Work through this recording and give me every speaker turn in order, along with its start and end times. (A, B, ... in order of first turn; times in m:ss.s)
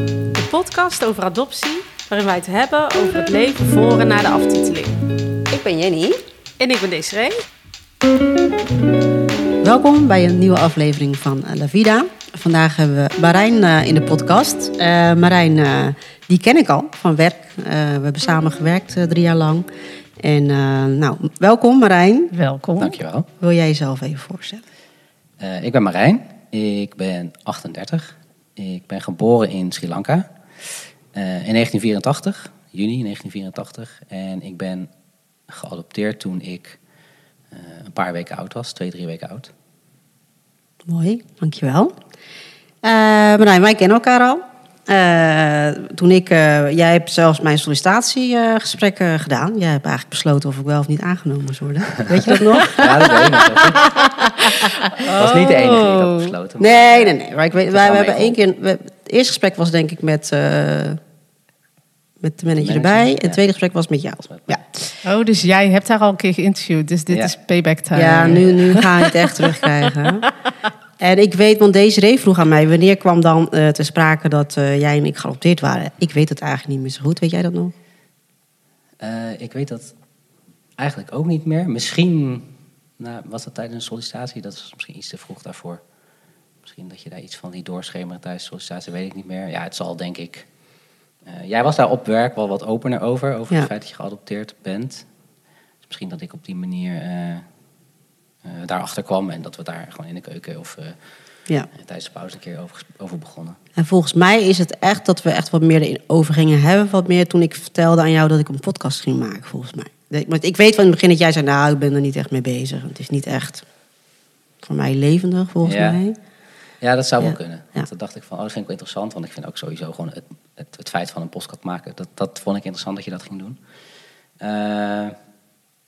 0:00.3-0:05.0 A
0:05.5-0:06.2 B
0:06.6-0:07.4 A
0:09.6-0:19.7 B
0:20.2-0:22.3 B
0:22.3-0:23.0 A
0:22.8-0:23.3 C
0:23.4-0:24.6 B
0:25.4-0:30.3 C
0:31.1-0:34.9 C
0:35.5-0:36.8 C
0:37.5-0:39.5 C
0:40.9-0:41.9 B
0:42.8-0:55.3 B
0:52.7-0:54.0 C
0:54.4-0:56.3 A
0:55.0-0:57.2 C
0:56.6-1:01.0 B
0:57.7-0:58.4 C
1:02.2-1:04.6 B
1:02.6-1:03.4 C
1:04.2-1:04.6 C
1:05.0-1:09.7 A
1:07.9-1:10.3 B
1:11.0-1:17.7 B
1:19.0-1:19.9 C
1:20.8-1:25.8 C
1:26.6-1:30.5 C
1:31.2-1:35.1 C
1:35.8-1:37.4 C
1:38.4-1:41.0 C
1:41.8-1:43.6 C
1:43.8-1:53.6 B
1:54.6-1:56.2 B
1:55.6-1:56.0 C
1:56.8-2:03.6 C
1:57.2-1:57.9 B
2:04.4-2:05.2 C